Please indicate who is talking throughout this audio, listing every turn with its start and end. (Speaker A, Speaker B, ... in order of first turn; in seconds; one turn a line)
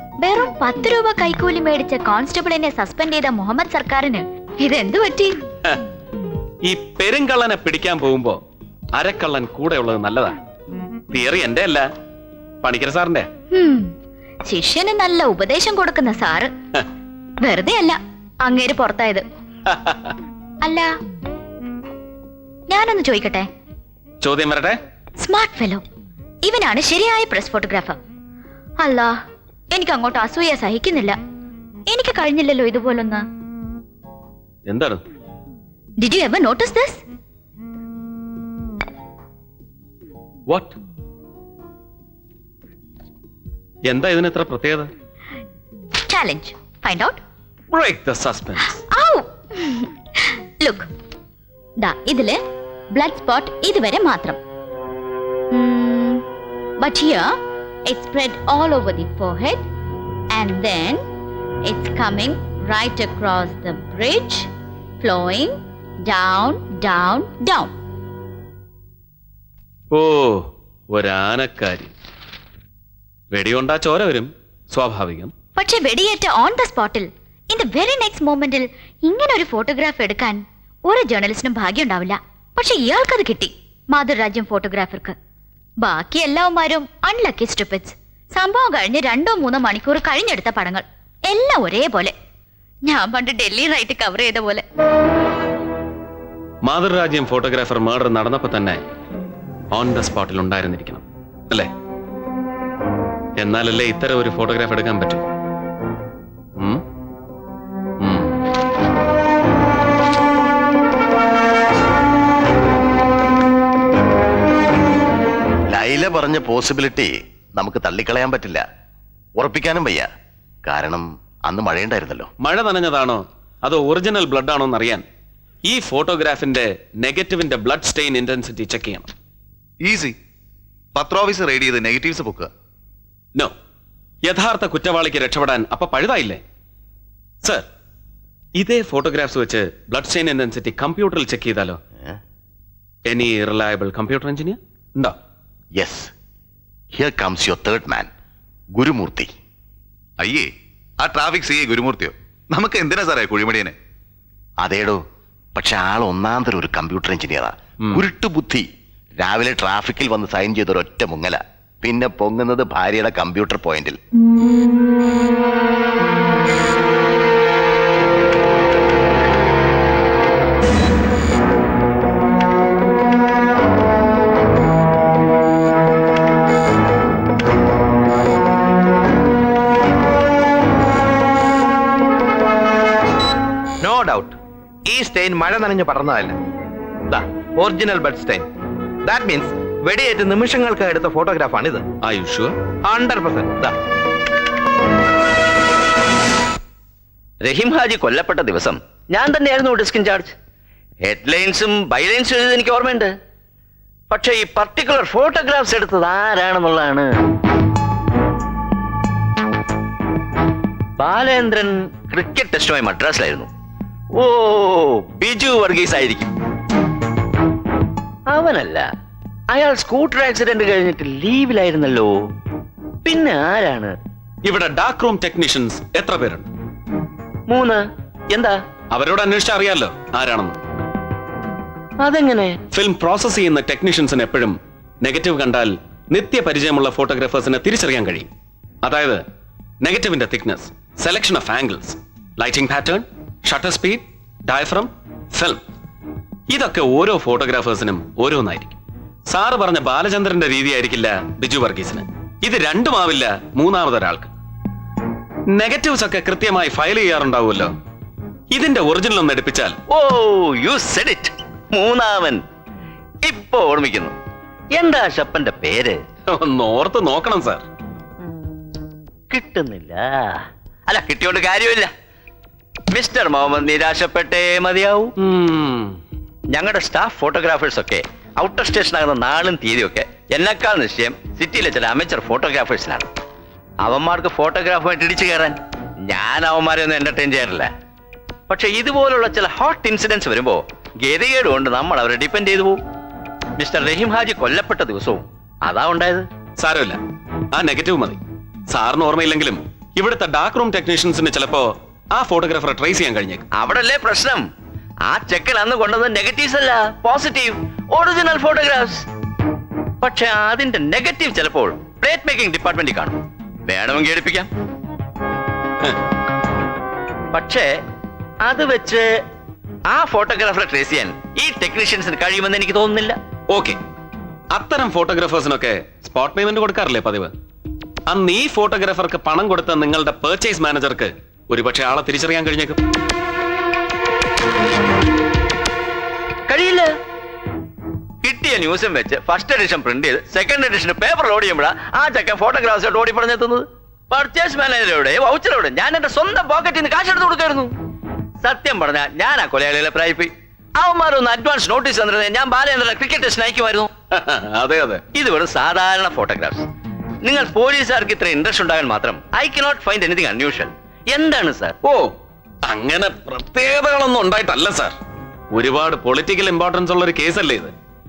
Speaker A: 0.2-5.4
Speaker B: 6.7-8.4
Speaker B: 8.9-10.4
Speaker B: 11.1-11.9
Speaker B: 12.6-13.3
Speaker A: 13.5-13.9
Speaker A: 14.5-16.5
Speaker A: 17.4-19.3
Speaker B: 19.7-20.1
Speaker A: 20.6-20.9
Speaker A: 22.7-23.5
Speaker B: 24.2-24.8
Speaker A: 25.2-25.8
Speaker A: 26.4-28.0
Speaker A: 28.8-29.2
Speaker A: 29.7-31.2
Speaker A: 31.9-33.2
Speaker B: 34.7-35.0
Speaker A: 36.0-37.0
Speaker B: 40.5-40.8
Speaker B: 43.9-44.9
Speaker A: 46.1-47.2
Speaker B: 47.7-48.8
Speaker A: 48.8-50.9
Speaker A: 51.8-52.4
Speaker A: 52.9-54.4
Speaker A: 55.5-56.2
Speaker A: 56.8-57.4
Speaker A: 57.9-59.6
Speaker A: 60.3-61.0
Speaker A: 61.7-64.5
Speaker A: 65.0-67.8
Speaker B: 69.9-71.9
Speaker B: 73.3-75.3
Speaker A: 75.6-85.2
Speaker A: 85.8-92.1
Speaker A: 92.9-94.6
Speaker B: 96.6-98.8
Speaker B: 99.7-101.7
Speaker B: 103.4-105.3
Speaker B: 108.0-108.3
Speaker C: 115.7-118.6
Speaker C: 119.4-120.1
Speaker C: 120.7-122.3
Speaker B: 122.4-125.0
Speaker B: 125.7-129.1
Speaker D: 129.8-130.2
Speaker D: 130.9-132.5
Speaker B: 134.2-136.4
Speaker B: 138.6-141.8
Speaker B: 143.1-145.2
Speaker C: 145.8-146.1
Speaker C: 146.9-148.1
Speaker C: 148.7-149.3
Speaker D: 150.2-150.5
Speaker D: 151.0-153.7
Speaker C: 154.6-155.0
Speaker C: 155.6-158.7
Speaker C: 159.2-164.0
Speaker E: 184.9-186.3
Speaker E: 187.1-188.5
Speaker E: 189.1-191.8
Speaker B: 192.0-192.6
Speaker E: 193.0-193.6
Speaker F: 197.4-200.3
Speaker F: 201.0-203.1
Speaker F: 204.1-207.1
Speaker F: 211.0-213.5
Speaker F: 214.2-216.3
Speaker F: 218.3-218.9
Speaker F: 219.5-222.2
Speaker F: 223.1-223.9
Speaker B: 224.4-226.5
Speaker F: 227.5-228.6
Speaker B: 228.9-230.6
Speaker F: 232.0-232.6
Speaker B: 232.7-238.3
Speaker B: 238.8-239.2
Speaker B: 239.8-245.6
Speaker B: 246.5-254.3
Speaker B: 255.5-257.7
Speaker B: 258.5-259.8
Speaker F: 259.9-262.4
Speaker F: 263.2-264.1
Speaker F: 264.7-266.0
Speaker B: 266.3-267.6
Speaker F: 269.3-271.9
Speaker F: 272.9-275.1
Speaker B: 275.2-276.0
Speaker F: 276.5-283.1
Speaker F: 283.8-287.7
Speaker F: 288.5-292.8
Speaker F: 293.6-296.3
Speaker B: 296.6-297.0
Speaker B: 297.5-303.4
Speaker F: 303.6-304.4
Speaker F: 305.1-309.1
Speaker F: 310.0-314.5
Speaker F: 317.3-317.7
Speaker F: 318.4-319.1
Speaker F: 319.9-323.2
Speaker B: 323.5-323.8
Speaker B: 324.5-327.3
Speaker B: 328.1-332.8
Speaker F: 336.5-336.9
Speaker F: 338.2-347.7
Speaker F: 348.4-353.9
Speaker B: 354.1-355.0
Speaker F: 355.1-356.7
Speaker F: 357.2-361.8
Speaker B: 361.8-362.1
Speaker B: 362.6-364.9
Speaker B: 365.5-367.7